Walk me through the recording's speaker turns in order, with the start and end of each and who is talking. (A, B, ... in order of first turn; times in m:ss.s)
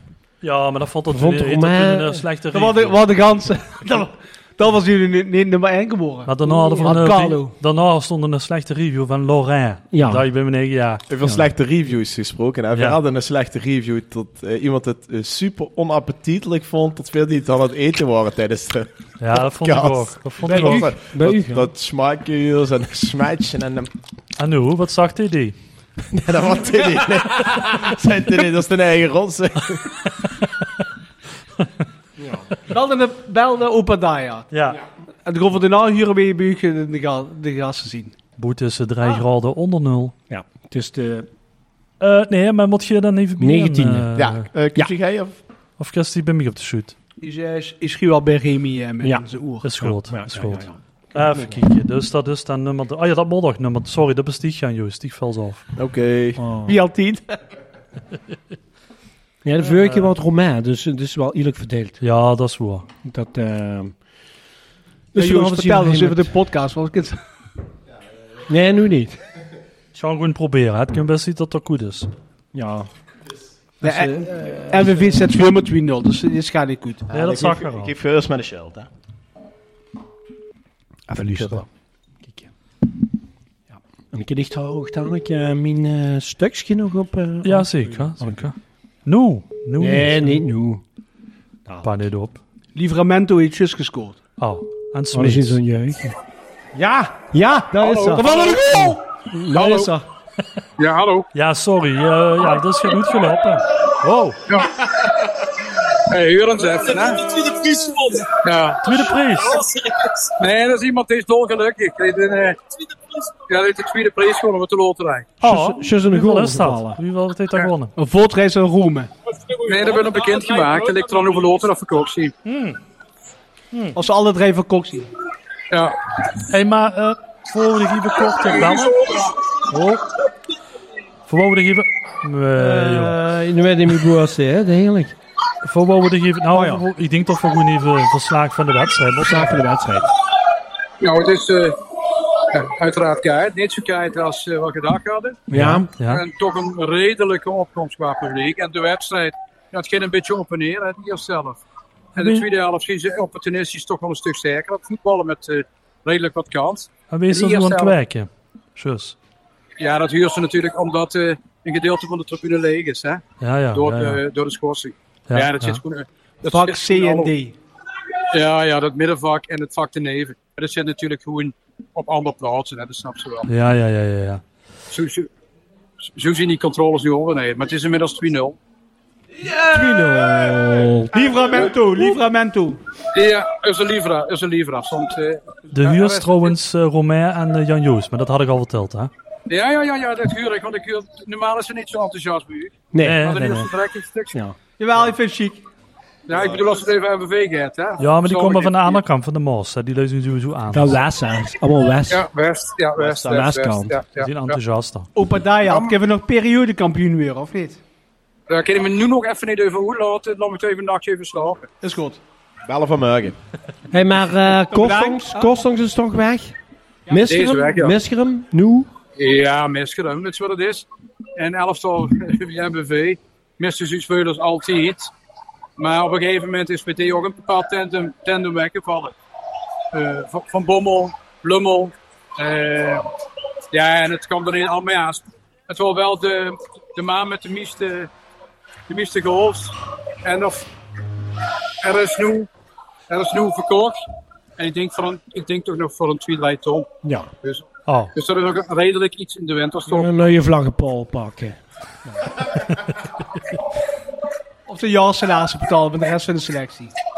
0:00.4-0:03.0 A
0:01.1-0:02.2 B
0:02.5-0:07.5 C
0:06.2-0:11.4 A
0:09.9-0:10.2 B
0:11.1-0:23.9 D
0:19.2-0:20.9 A
0:20.4-0:21.7 B
0:24.4-0:25.6 A
0:26.1-0:30.0 D
0:32.2-0:32.5 B
0:32.7-0:34.6 C
0:34.5-0:34.8 A
0:35.2-0:38.1 C
0:38.4-0:40.1 A
0:40.3-0:41.3 B
0:42.0-0:44.5 A
0:43.4-0:44.1 B
0:44.2-0:45.4 D
0:45.8-0:46.9 A
0:47.2-0:49.7 C
0:49.0-0:51.6 B
0:49.6-0:55.6 A
0:55.8-0:56.5 D
0:56.4-0:56.8 B
0:56.6-0:57.4 C
0:59.4-1:02.0 B
0:59.7-1:00.1 A
1:02.0-1:02.8 A
1:03.0-1:03.9 B
1:05.1-1:06.3 B
1:05.1-1:07.2 C
1:08.5-1:09.2 B
1:09.9-1:12.1 A
1:12.5-1:12.9 B
1:13.8-1:15.4 B
1:13.8-1:17.0 C
1:17.1-1:18.9 D
1:17.1-1:17.9 A
1:21.1-1:21.6 B
1:23.7-1:28.4 B
1:27.4-1:28.5 A
1:29.0-1:30.4 A
1:29.8-1:30.8 B
1:31.8-1:32.4 A
1:32.7-1:34.2 C
1:34.4-1:35.6 A
1:35.1-1:36.2 B
1:36.7-1:37.3 B
1:37.3-1:39.0 C
1:37.8-1:38.9 E
1:37.9-1:40.0 B
1:39.5-1:39.9 E
1:40.8-1:41.3 E
1:41.3-1:44.4 A
1:44.5-1:45.1 E
1:45.9-1:49.0 E
1:48.8-1:49.6 A
1:50.2-1:52.6 E
1:53.5-1:55.3 E
1:55.4-1:57.0 B
1:55.4-1:57.9 A
1:58.0-1:59.1 C
1:59.6-2:02.3 E
2:02.4-2:02.8 A
2:03.7-2:04.0 A
2:03.9-2:05.1 C
2:05.7-2:06.0 E
2:06.5-2:09.1 A
2:09.0-2:09.3 E
2:09.7-2:10.0 A
2:11.3-2:13.2 A
2:12.5-2:15.1 B
2:15.6-2:19.6 A
2:16.5-2:16.8 B
2:19.2-2:20.1 B
2:21.0-2:21.8 E
2:22.5-2:25.4 E
2:25.5-2:25.9 B
2:25.5-2:26.2 A
2:26.1-2:31.6 E
2:32.2-2:37.9 E
2:32.2-2:32.4 A
2:37.1-2:39.2 A
2:39.8-2:47.3 E
2:43.4-2:44.2 A
2:45.3-2:45.8 A
2:46.5-2:47.6 C
2:48.3-2:53.5 E
2:53.5-2:54.4 A
2:54.9-2:55.3 E
2:56.1-2:58.6 E
2:59.4-3:01.5 B
3:01.1-3:02.8 C
3:03.1-3:06.6 E
3:05.7-3:09.1 A
3:09.5-3:14.4 E
3:12.9-3:13.6 B
3:13.0-3:13.7 A
3:14.8-3:15.6 C
3:16.3-3:19.0 E
3:18.0-3:21.0 A
3:20.7-3:22.3 B
3:22.1-3:24.6 E
3:23.0-3:24.0 B
3:24.2-3:25.1 A
3:25.1-3:27.8 C
3:25.7-3:25.9 E
3:28.5-3:31.7 E
3:31.8-3:32.2 C
3:32.6-3:33.4 D
3:33.9-3:36.5 B
3:34.7-3:35.5 C
3:37.1-3:38.9 B
3:37.1-3:37.9 E
3:39.2-3:40.8 E
3:41.4-3:45.1 E
3:45.8-3:49.1 E
3:49.9-3:53.0 E
3:53.7-3:58.1 E
3:58.9-4:00.6 E
4:01.8-4:02.5 E
4:03.1-4:04.0 E
4:04.6-4:06.9 E
4:07.0-4:07.3 B
4:07.4-4:10.1 E
4:07.8-4:08.1 A
4:09.9-4:12.4 B
4:14.7-4:16.9 C